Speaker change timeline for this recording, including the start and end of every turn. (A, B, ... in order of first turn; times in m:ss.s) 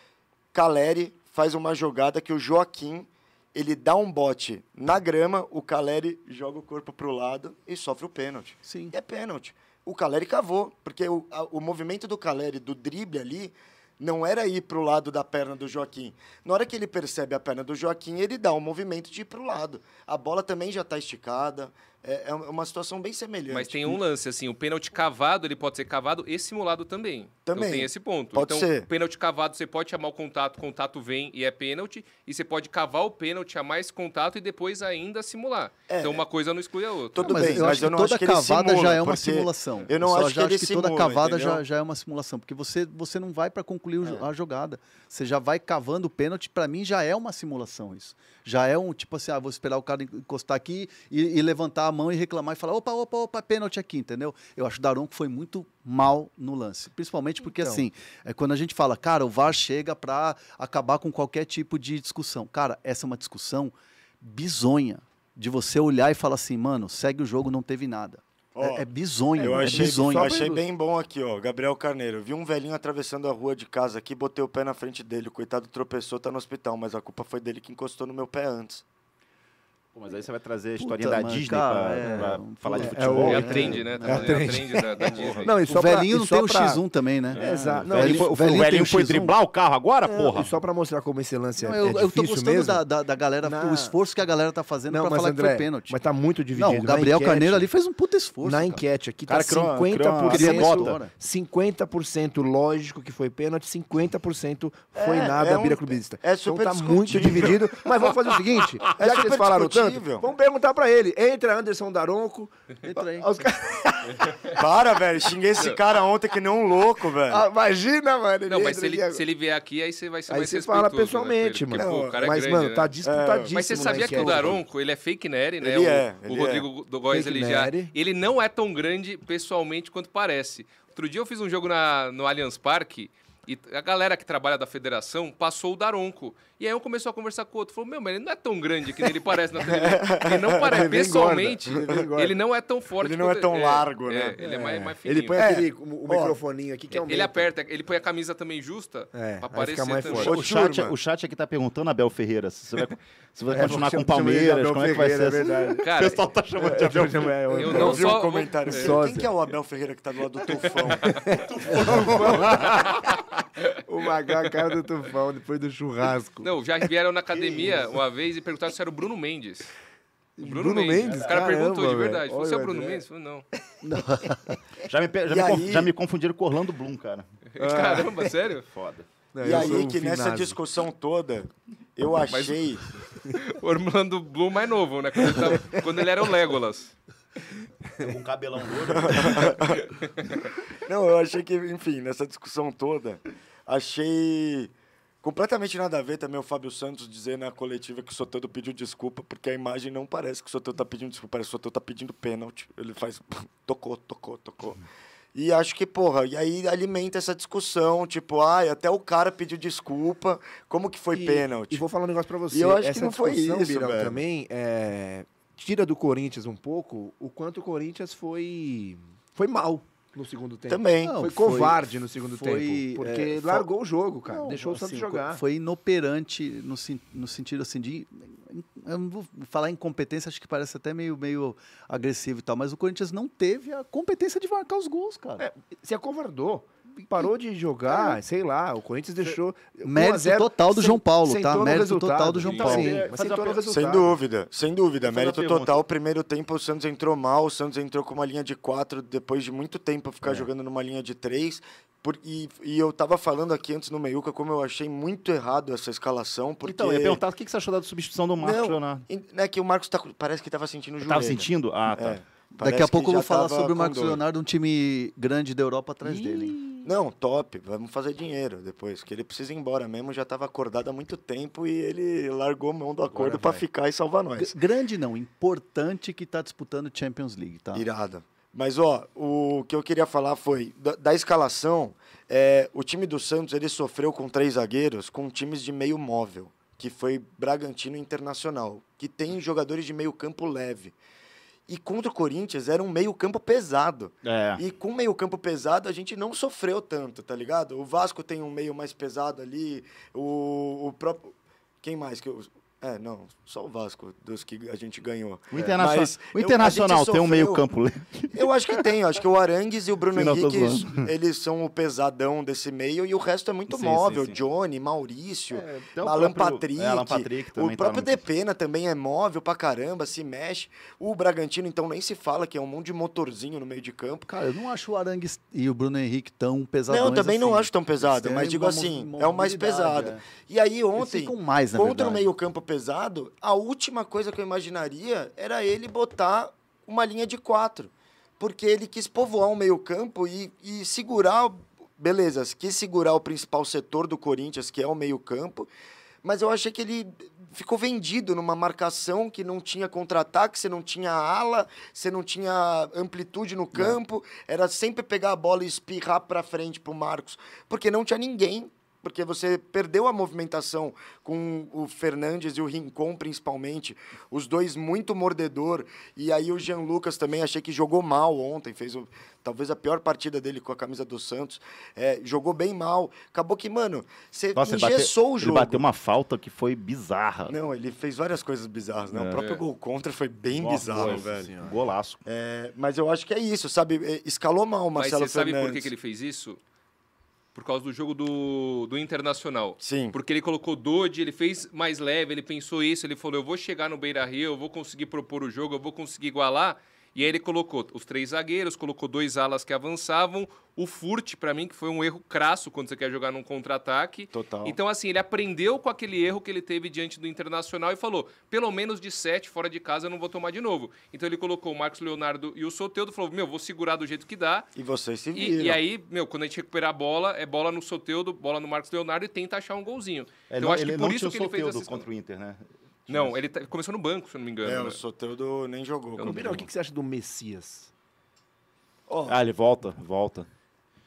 0:00.5-0:24.0 A
0:08.6-0:08.9 B
0:23.5-0:37.8 C
0:27.5-0:28.9 A
0:35.9-0:36.2 A
0:37.1-0:41.6 A
0:37.2-1:10.5 B
0:57.4-0:57.9 D
1:08.6-1:08.9 A
1:09.4-1:10.6 D
1:09.4-1:18.8 A
1:19.9-1:24.3 E
1:20.8-1:24.4 B
1:22.0-1:26.8 D
1:23.2-1:25.5 C
1:25.1-1:25.6 E
1:25.7-1:29.4 B
1:27.3-1:30.6 E
1:27.4-1:28.9 D
1:30.0-1:32.8 D
1:31.6-1:36.0 B
1:33.4-1:34.0 D
1:34.9-1:37.7 D
1:36.6-1:38.8 B
1:38.4-1:52.5 D
1:39.3-1:41.0 E
1:40.2-1:41.1 B
1:45.0-1:47.8 A
1:49.0-1:50.3 A
1:52.8-1:53.5 B
1:53.1-1:54.2 D
1:54.6-1:57.4 A
1:57.3-1:59.2 D
1:58.5-2:02.9 C
2:00.3-2:04.6 D
2:01.7-2:02.4 A
2:03.0-2:04.6 A
2:03.5-2:25.5 C
2:05.6-2:06.7 A
2:07.1-2:07.9 D
2:19.8-2:21.2 A
2:20.6-2:22.4 D
2:23.0-2:24.4 A
2:24.4-2:27.5 D
2:25.4-2:26.4 A
2:26.9-2:30.3 C
2:29.1-2:30.4 D
2:30.2-2:37.4 E
2:30.2-2:31.0 A
2:33.5-2:36.0 D
2:35.8-2:36.2 C
2:36.6-2:39.3 D
2:37.6-2:39.0 C
2:37.6-2:41.1 A
2:41.0-2:43.0 D
2:41.5-2:42.9 E
2:43.9-2:46.5 D
2:46.4-2:49.7 C
2:50.4-2:53.0 D
2:50.4-2:53.5 C
2:51.0-2:51.5 E
2:53.8-2:54.6 B
2:54.9-2:57.3 E
2:55.3-2:55.9 A
2:57.6-2:58.7 C
2:57.6-2:58.3 D
2:58.7-2:59.1 E
2:59.3-3:00.6 D
2:59.4-3:02.9 A
3:02.3-3:02.6 C
3:03.3-3:06.9 C
3:05.3-3:05.8 D
3:08.0-3:09.6 E
3:08.9-3:09.8 A
3:10.9-3:14.7 A
3:15.2-3:24.8 A
3:25.3-3:31.9 A
3:31.1-3:45.4 D
3:32.5-3:34.2 A
3:40.7-3:41.2 A
3:41.0-3:43.7 B
3:44.3-3:55.5 B
3:55.4-4:04.2 D
3:57.9-3:58.2 B
3:59.8-4:03.1 B
4:02.4-4:03.6 E
4:03.7-4:17.2 A
4:05.0-4:05.8 E
4:16.6-4:19.1 E
4:18.4-4:24.2 A
4:21.0-4:22.2 E
4:22.6-4:26.6 B
4:26.8-4:34.6 A
4:33.1-4:33.6 E
4:34.4-4:37.8 B
4:37.7-4:51.0 A
4:51.7-5:07.6 A
4:54.2-4:54.6 E
5:05.5-5:08.8 E
5:08.3-5:24.3 A
5:10.1-5:11.1 E
5:13.7-5:14.4 E
5:15.7-5:18.2 E
5:24.3-5:30.3 B
5:26.9-5:45.7 A
5:31.0-5:32.3 B
5:46.2-6:15.8 A
6:14.5-6:17.6 E
6:17.5-6:21.5 A
6:19.1-6:19.4 E
6:19.4-6:19.6 C
6:20.5-6:22.2 E
6:21.0-6:21.8 D
6:22.2-6:25.9 A
6:25.0-6:26.6 C
6:27.6-6:54.7 C
6:29.8-6:30.2 A
6:44.3-6:44.8 A
6:54.8-6:55.8 A
6:55.3-7:02.1 C
7:00.5-7:03.4 E
7:03.1-7:05.0 C
7:04.6-7:06.6 A
7:06.2-7:06.5 C
7:06.2-7:07.9 D
7:09.1-7:09.4 A
7:09.3-7:10.5 E